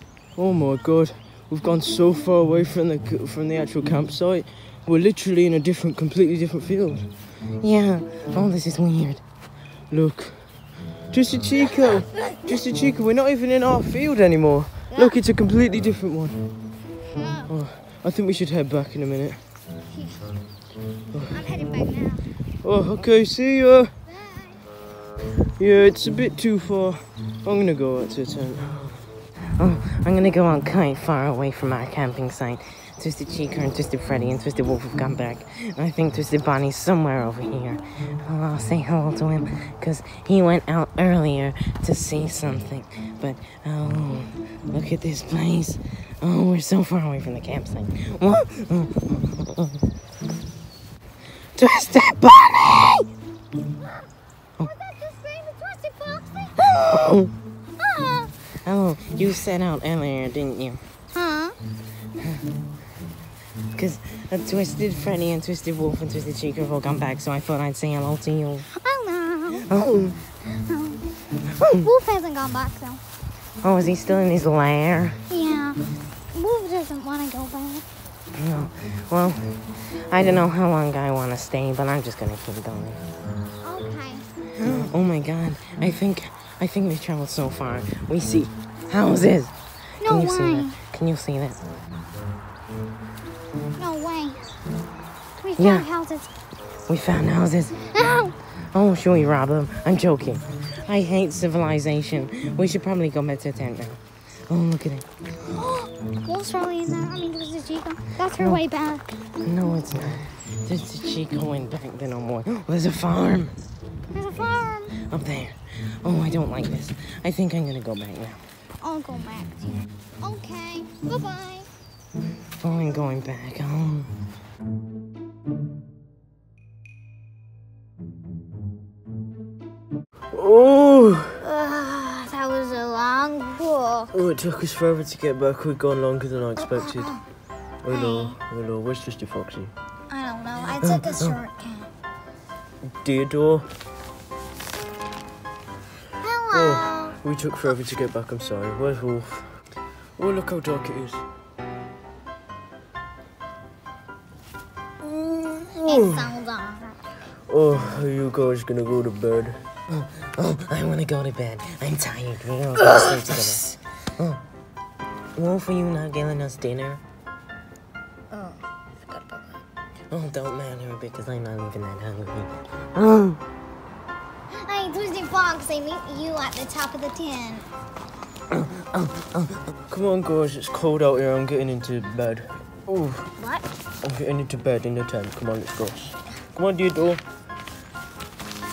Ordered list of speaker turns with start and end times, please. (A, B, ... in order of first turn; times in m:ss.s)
0:00.4-0:07.1 A
0:07.6-0:09.2 B
0:09.9-0:10.5 A
0:11.1-0:16.4 A
0:14.9-0:15.2 C
0:17.1-0:17.5 C
0:17.5-0:19.4 A
0:19.9-0:20.2 C
0:21.1-0:21.4 A
0:21.3-0:22.3 C
0:22.6-0:23.9 A
0:24.1-0:24.6 C
0:25.6-0:29.0 A
0:29.6-0:49.8 B
0:51.6-0:53.1 B
0:54.6-0:56.7 C
0:56.6-0:57.3 B
0:57.8-0:58.3 C
0:58.6-1:00.8 B
1:01.1-1:01.6 C
1:02.2-1:02.5 B
1:03.7-1:08.7 B
1:08.7-1:09.7 C
1:09.6-1:10.2 B
1:10.4-1:13.0 C
1:11.6-1:11.9 B
1:13.6-1:15.2 B
1:15.3-1:17.8 C
1:18.3-1:23.0 B
1:23.6-1:24.3 C
1:24.6-1:31.6 B
1:30.0-1:30.8 C
1:33.8-1:34.6 C
1:35.4-1:36.3 C
1:35.6-1:35.9 B
1:36.9-1:37.9 B
1:37.8-1:38.3 C
1:38.7-1:45.0 B
1:45.4-1:49.1 C
1:49.4-1:53.5 B
1:54.1-1:55.0 C
1:55.0-1:58.4 B
1:58.8-2:01.7 C
2:02.6-2:04.1 B
2:10.3-2:11.4 A
2:11.4-2:14.2 C
2:14.1-2:17.1 A
2:16.6-2:17.2 C
2:17.8-2:19.7 A
2:17.9-2:18.4 C
2:20.1-2:21.9 C
2:20.8-2:21.4 B
2:22.8-2:23.7 A
2:26.2-2:27.2 C
2:26.5-2:29.6 A
2:30.2-2:31.2 A
2:35.0-2:36.2 A
2:35.8-2:37.0 C
2:37.5-2:39.6 A
2:39.9-2:44.4 B
2:45.4-2:47.0 B
2:48.3-2:49.6 C
2:50.1-2:53.4 B
2:54.5-2:57.7 C
2:58.5-2:59.6 B
2:59.9-3:03.3 A
3:03.4-3:03.6 C
3:04.0-3:07.2 A